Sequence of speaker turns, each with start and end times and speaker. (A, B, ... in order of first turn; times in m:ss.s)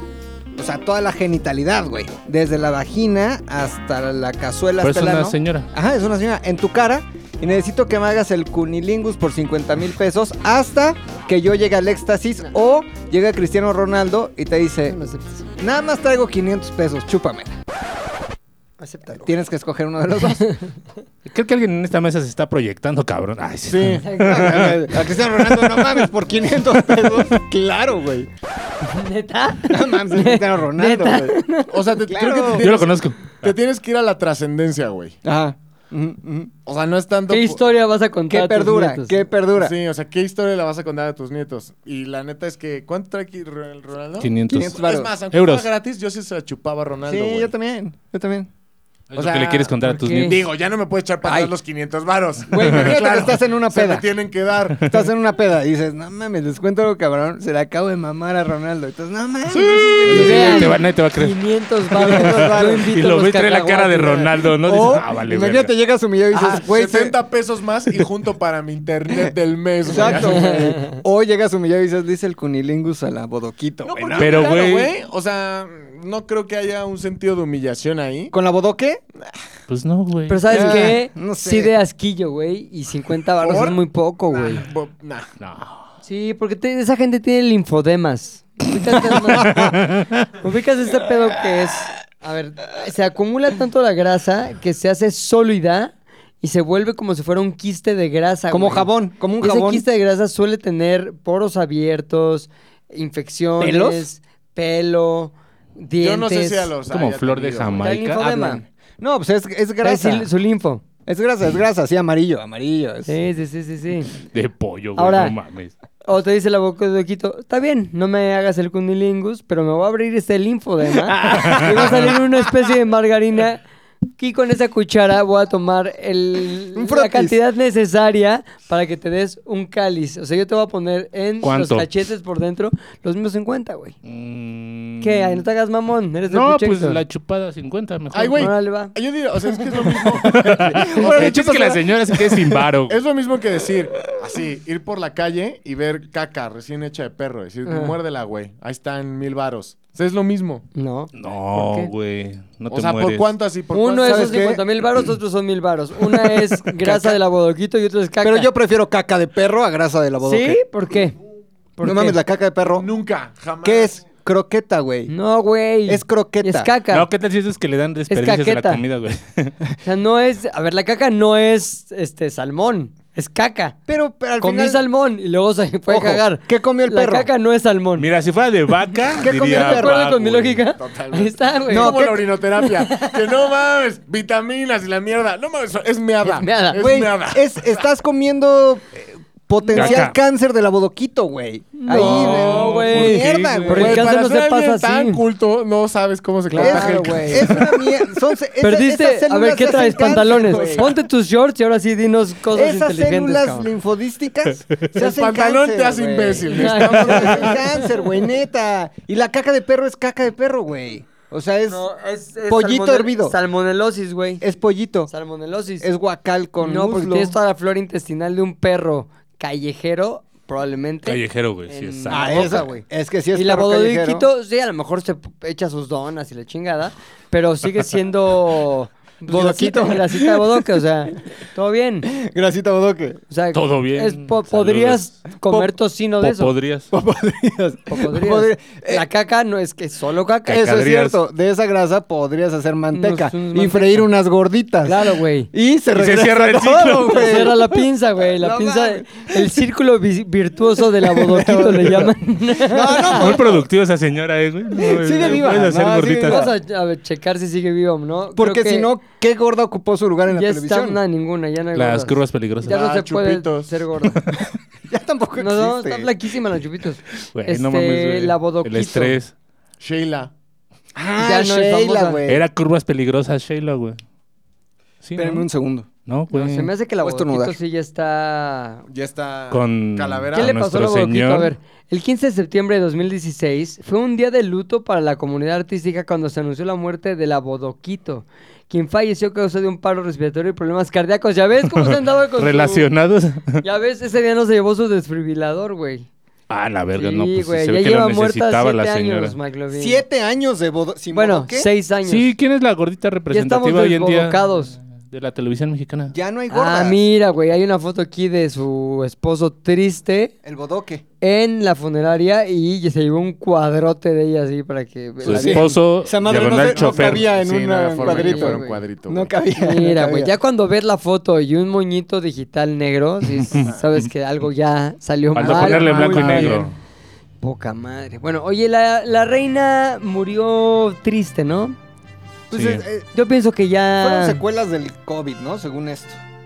0:00.5-0:15.0 A
0:04.8-0:05.7 B
0:14.9-0:15.5 C
0:15.6-0:17.6 A
0:18.8-0:19.3 C
0:19.2-0:20.5 A
0:20.4-0:20.7 C
0:21.3-0:25.0 B
0:23.7-0:24.0 D
0:24.0-0:24.7 C
0:24.2-0:28.3 A
0:28.8-0:31.8 C
0:29.7-0:31.4 A
0:31.7-0:35.2 D
0:32.1-0:32.7 A
0:32.6-0:33.5 B
0:35.2-0:36.5 A
0:36.7-0:37.7 D
0:37.3-0:39.2 C
0:38.3-0:39.8 A
0:39.5-0:47.5 D
0:44.2-0:44.8 B
0:44.5-0:45.1 A
0:45.3-0:45.7 B
0:47.0-0:48.5 A
0:49.1-0:50.5 B
0:49.2-0:49.6 D
0:49.2-0:49.7 A
0:49.8-0:50.4 C
0:50.2-0:54.9 D
0:51.2-0:51.5 A
0:52.5-0:54.1 A
0:54.8-1:00.8 A
0:59.5-1:00.7 D
1:00.1-1:01.4 B
1:00.1-1:04.3 C
1:01.9-1:05.7 B
1:02.0-1:02.9 A
1:04.6-1:07.2 A
1:06.3-1:10.7 D
1:09.8-1:14.6 A
1:10.0-1:11.0 C
1:13.8-1:18.3 D
1:14.2-1:14.9 B
1:18.3-1:19.0 A
1:19.7-1:20.8 B
1:20.3-1:24.6 C
1:20.5-1:21.7 A
1:23.4-1:23.8 D
1:24.3-1:25.3 D
1:25.4-1:25.8 B
1:26.0-1:29.8 C
1:29.4-1:30.3 B
1:30.4-1:38.9 C
1:38.5-1:39.8 A
1:39.4-1:46.7 C
1:43.6-1:44.1 A
1:46.0-1:47.9 D
1:46.9-1:48.2 B
1:47.8-1:48.6 C
1:48.2-1:50.3 A
1:49.8-1:50.8 C
1:51.1-1:53.1 A
1:53.1-1:54.1 C
1:54.2-1:55.7 B
1:55.0-1:55.4 C
1:56.0-2:03.6 C
2:01.1-2:02.2 A
2:01.2-2:01.9 B
2:04.2-2:14.0 C
2:06.8-2:07.4 A
2:11.4-2:11.9 B
2:14.0-2:15.4 B
2:15.0-2:17.0 C
2:16.3-2:18.5 B
2:18.1-2:21.8 D
2:18.3-2:18.9 C
2:20.2-2:23.0 B
2:20.3-2:22.6 A
2:22.9-2:30.7 D
2:27.7-2:28.0 C
2:30.8-2:31.9 C
2:31.2-2:33.3 B
2:32.7-2:34.4 D
2:33.7-2:38.5 C
2:34.0-2:34.6 A
2:36.3-2:37.2 A
2:38.2-2:40.6 A
2:40.2-2:41.2 C
2:41.8-2:42.2 C
2:41.8-2:42.9 A
2:42.7-2:44.0 D
2:43.6-2:45.1 A
2:45.1-2:47.1 C
2:45.9-2:46.7 A
2:46.9-2:49.6 B
2:48.1-2:48.8 C
2:49.8-2:53.8 C
2:53.9-2:54.8 A
2:54.4-2:58.1 C
2:55.9-2:57.3 A
2:58.0-3:00.6 B
2:59.2-3:00.0 A
2:59.6-3:02.0 C
3:00.8-3:07.8 D
3:01.7-3:02.3 A
3:02.6-3:03.2 C
3:06.2-3:06.8 C
3:06.8-3:14.1 A
3:09.6-3:10.1 C
3:09.7-3:10.2 B
3:11.8-3:15.2 C
3:11.9-3:14.0 B
3:12.3-3:12.8 D
3:13.7-3:17.8 D
3:16.5-3:17.7 C
3:16.6-3:20.9 A
3:18.6-3:23.7 C
3:20.3-3:21.0 D
3:22.5-3:31.9 A
3:24.9-3:27.7 D
3:26.5-3:28.0 C
3:31.7-3:34.4 C
3:32.5-3:33.4 A
3:34.4-3:35.1 A
3:35.1-3:35.9 C
3:35.8-3:37.4 A
3:36.6-3:52.1 C
3:41.1-3:42.7 B
3:42.1-3:44.3 A
3:49.3-3:50.6 A
3:52.1-3:53.2 A
3:53.3-3:56.5 C
3:53.5-3:55.6 B
3:56.2-3:56.9 B
3:56.9-3:59.0 A
3:57.9-4:00.6 C
4:00.5-4:09.5 A
4:00.5-4:01.2 B
4:02.9-4:04.1 C
4:04.9-4:05.5 C
4:05.9-4:07.5 B
4:07.1-4:13.3 C
4:10.8-4:13.6 A
4:13.0-4:16.5 B
4:14.8-4:16.5 A
4:16.2-4:18.9 C
4:18.4-4:21.0 A
4:20.3-4:24.2 C
4:21.8-4:22.8 B
4:22.6-4:23.8 D
4:24.9-4:26.1 A
4:25.4-4:29.2 C
4:27.3-4:29.3 B
4:29.8-4:30.3 D
4:31.0-4:32.4 A
4:31.2-4:32.2 C
4:32.3-4:34.0 B
4:35.0-4:35.5 B
4:35.2-4:35.9 A
4:36.1-4:36.7 B
4:36.3-4:38.8 C
4:37.0-4:37.6 A
4:38.9-4:40.6 D
4:39.5-4:41.5 B
4:40.3-4:52.9 C
4:51.8-4:53.6 B
4:53.6-4:56.1 C
4:56.5-4:59.4 B
4:57.0-5:00.0 C
4:59.7-5:01.7 A
5:01.1-5:02.3 C
5:02.0-5:06.1 B
5:03.3-5:04.7 C
5:06.1-5:07.0 A
5:06.5-5:10.3 C
5:10.4-5:11.0 A
5:11.2-5:15.8 C
5:15.2-5:17.3 B
5:15.2-5:20.3 A
5:16.2-5:19.3 D
5:18.0-5:18.8 C
5:19.6-5:26.7 C
5:23.5-5:24.1 B
5:25.4-5:26.8 B
5:25.4-5:26.6 A
5:27.4-5:31.8 C
5:32.5-5:33.1 A
5:32.5-5:32.8 B
5:33.1-5:34.4 C
5:34.0-5:36.2 A